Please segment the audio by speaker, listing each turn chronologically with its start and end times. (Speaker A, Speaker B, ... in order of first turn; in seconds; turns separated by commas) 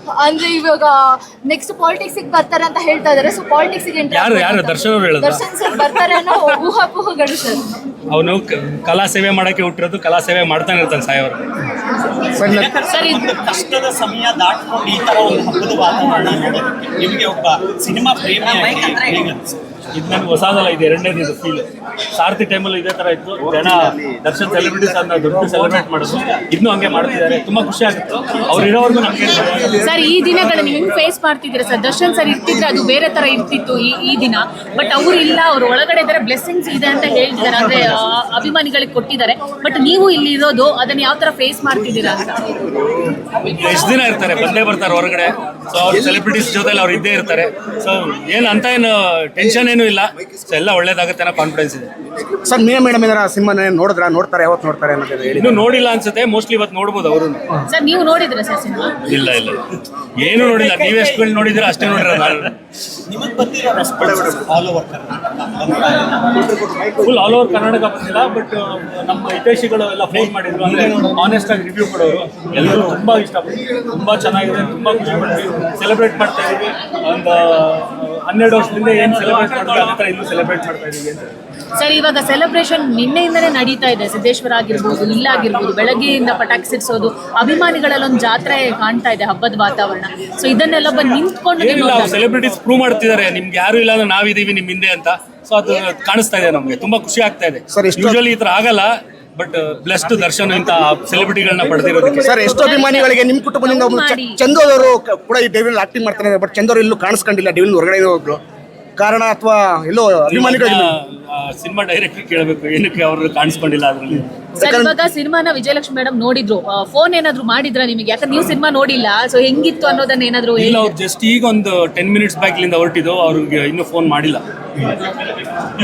Speaker A: 0.1-7.7, Speaker B: 4.1-5.5, Speaker B: 8.1-11.4, Speaker C: 12.3-12.7, Speaker D: 12.4-19.6, Speaker E: 12.9-13.2, Speaker B: 19.9-29.8, Speaker E: 29.8-42.8, Speaker B: 43.4-51.9, Speaker C: 52.3-55.7, Speaker B: 55.4-57.5, Speaker E: 57.6-59.0, Speaker B: 59.1-62.5, Speaker D: 60.3-62.4, Speaker D: 63.1-66.6, Speaker B: 67.0-81.3, Speaker E: 81.8-92.2, Speaker B: 91.6-102.3, Speaker C: 97.7-98.2, Speaker C: 102.2-108.4, Speaker E: 102.4-104.4, Speaker C: 109.0-110.9, Speaker B: 110.3-114.3, Speaker E: 114.6-121.0, Speaker C: 114.6-114.9, Speaker B: 120.6-124.4